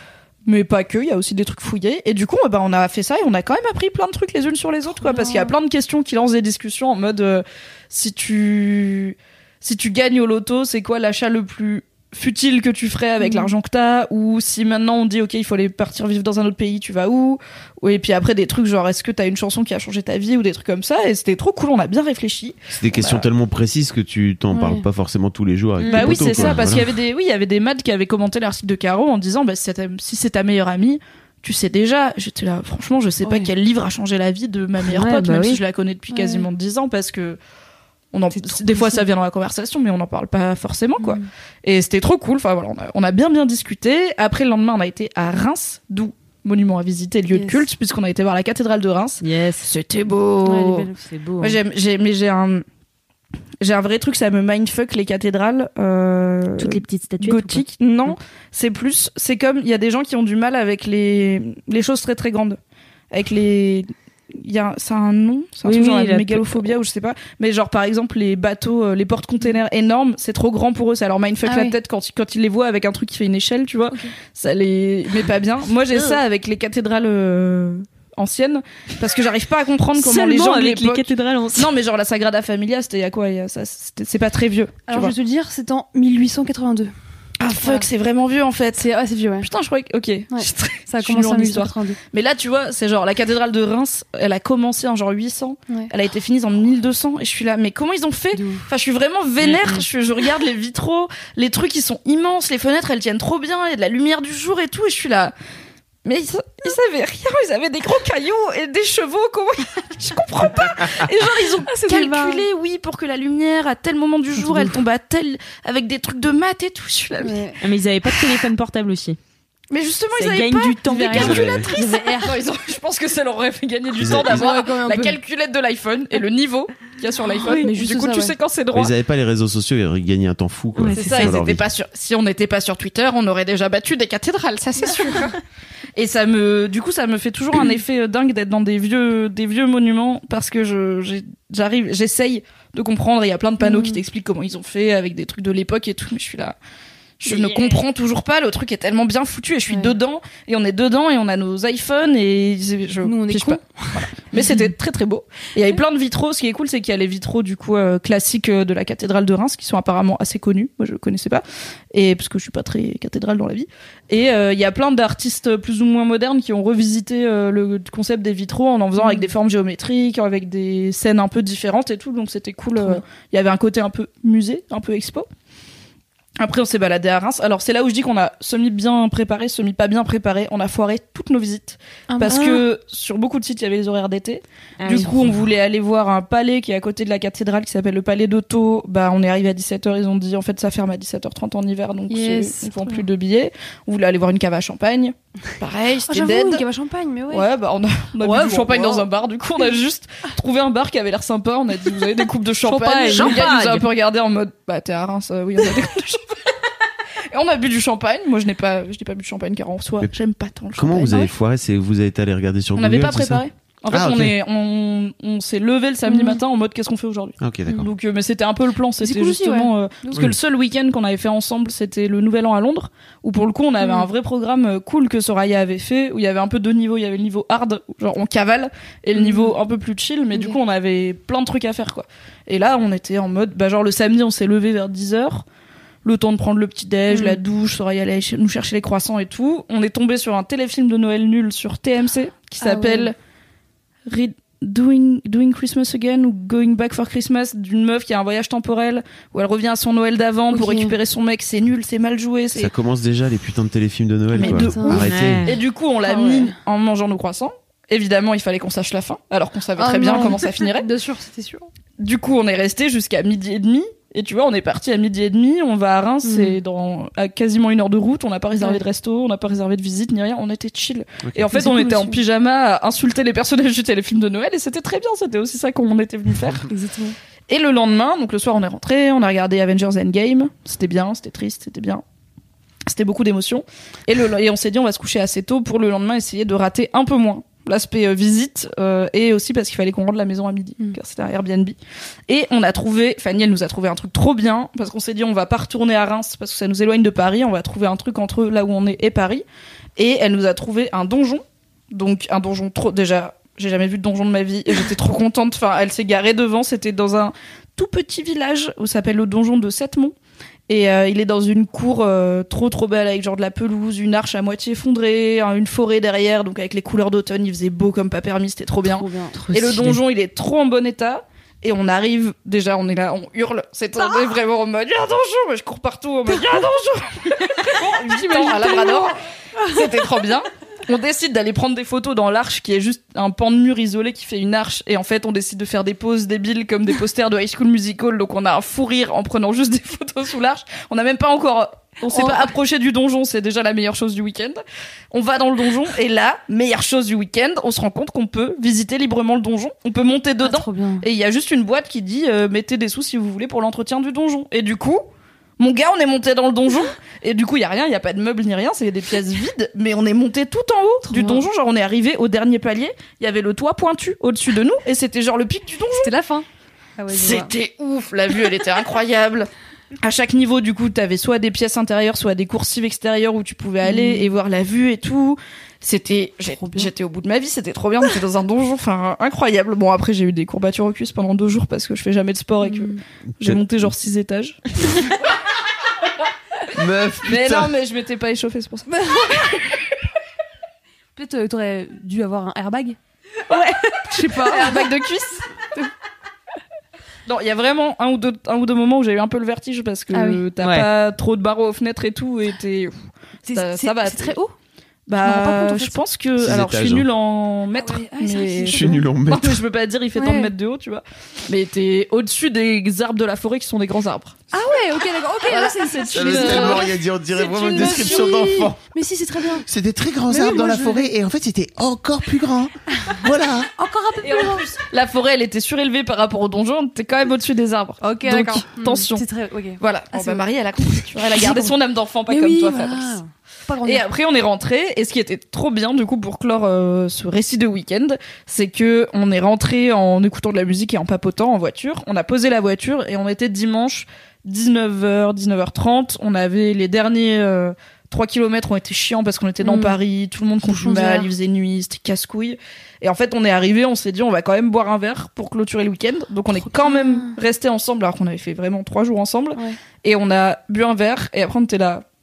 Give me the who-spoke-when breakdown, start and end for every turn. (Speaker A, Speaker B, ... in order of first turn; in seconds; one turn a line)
Speaker A: 0.5-23.3
Speaker B: 5.0-5.5
Speaker B: 13.2-13.5
Speaker C: 22.7-26.9
Speaker B: 24.5-24.8
Speaker D: 25.8-26.5
Speaker A: 25.9-37.4
Speaker B: 33.2-33.5
Speaker D: 34.9-35.6
Speaker B: 36.1-36.5
Speaker A: 38.1-50.9
Speaker B: 38.3-39.0
Speaker B: 41.0-41.2
Speaker B: 47.3-47.6
Speaker D: 49.2-49.7
Speaker B: 50.4-51.0
Speaker D: 51.0-51.6
Speaker A: 51.4-52.6
Speaker A: 53.6-62.6
Speaker D: 56.6-57.6
Speaker A: 63.1-85.1
Speaker D: 65.6-66.7
Speaker B: 71.5-71.7
Speaker D: 80.0-81.7
Speaker B: 84.9-86.9
Speaker A: 87.4-88.9
Speaker B: 87.6-87.9
Speaker B: 88.8-89.5
Speaker A: 89.4-105.3
Speaker B: 90.3-92.0
Speaker B: 98.3-98.7
Speaker D: 99.4-99.8
Speaker A: 106.0-117.5
Speaker B: 111.9-112.4
Speaker B: 117.2-117.6
Speaker D: 117.6-119.2
Speaker A: 119.7-128.9
Speaker D: 120.2-121.4
Speaker B: 121.1-122.4
Speaker C: 121.1-121.7
Speaker C: 124.0-124.5
Speaker B: 124.2-125.2
Speaker B: 127.4-128.3
Speaker C: 128.7-131.7
Speaker D: 130.8-131.4
Speaker A: 130.9-135.4
Speaker A: 135.9-146.6
Speaker B: 143.6-144.0
Speaker A: 147.2-175.3
Speaker B: 147.3-147.7
Speaker B: 149.7-149.9
Speaker B: 153.0-154.7
Speaker B: 169.0-169.3
Speaker B: 172.8-173.0
Speaker A: 176.4-196.7
Speaker B: 182.1-182.6
Speaker D: 182.3-182.6
Speaker D: 184.8-185.4
Speaker B: 192.1-193.0
Speaker B: 196.1-197.5
Speaker A: 197.3-206.3
Speaker D: 198.2-199.1
Speaker D: 202.7-203.9
Speaker B: 202.9-203.5
Speaker A: 207.3-211.3
Speaker C: 210.8-214.3
Speaker A: 212.8-235.4
Speaker B: 216.1-216.4
Speaker C: 217.4-217.9
Speaker B: 219.0-220.2
Speaker B: 223.8-224.1
Speaker B: 229.1-229.5
Speaker A: 236.0-243.1
Speaker B: 237.1-237.4
Speaker B: 242.6-243.1
Speaker A: 244.1-252.7
Speaker B: 250.5-250.9
Speaker C: 252.5-255.5
Speaker B: 254.3-255.0
Speaker A: 254.4-260.9
Speaker D: 254.9-255.6
Speaker B: 256.0-256.5
Speaker B: 259.8-261.7
Speaker A: 262.0-276.7
Speaker B: 266.2-266.6
Speaker B: 271.5-272.2
Speaker B: 276.7-277.1
Speaker A: 277.5-282.0
Speaker A: 282.9-291.8
Speaker A: 292.3-299.4
Speaker A: 300.0-310.1
Speaker A: 310.7-344.6
Speaker B: 318.8-319.4
Speaker D: 319.4-320.0
Speaker B: 327.8-329.8
Speaker B: 342.1-342.5
Speaker A: 345.1-355.0
Speaker B: 350.4-351.0
Speaker A: 355.6-366.1
Speaker B: 361.1-361.4
Speaker B: 366.0-366.4
Speaker B: 367.0-367.5
Speaker A: 367.1-369.5
Speaker A: 370.0-384.6
Speaker B: 373.8-374.3
Speaker B: 376.6-376.9
Speaker B: 382.6-383.0
Speaker C: 383.4-383.9
Speaker C: 386.7-387.7
Speaker A: 387.2-389.5
Speaker B: 389.0-389.6
Speaker B: 391.1-393.0
Speaker B: 393.5-394.9
Speaker A: 394.3-395.4
Speaker A: 397.3-402.9
Speaker B: 400.1-400.4
Speaker D: 400.6-400.9
Speaker B: 403.4-404.5
Speaker A: 403.5-404.4
Speaker A: 405.1-414.4
Speaker B: 405.2-406.0
Speaker C: 406.4-407.1
Speaker B: 407.8-409.0
Speaker C: 408.7-409.6
Speaker B: 410.1-410.5
Speaker B: 414.5-416.9
Speaker A: 415.4-418.5
Speaker C: 416.1-418.8
Speaker B: 417.5-419.6
Speaker C: 419.6-423.7
Speaker B: 420.3-421.1
Speaker B: 423.8-424.7
Speaker A: 424.2-429.2
Speaker B: 428.0-431.7
Speaker A: 429.8-433.2
Speaker B: 432.3-434.0
Speaker A: 433.8-462.0
Speaker B: 449.6-449.9
Speaker B: 450.7-451.3
Speaker B: 456.8-457.3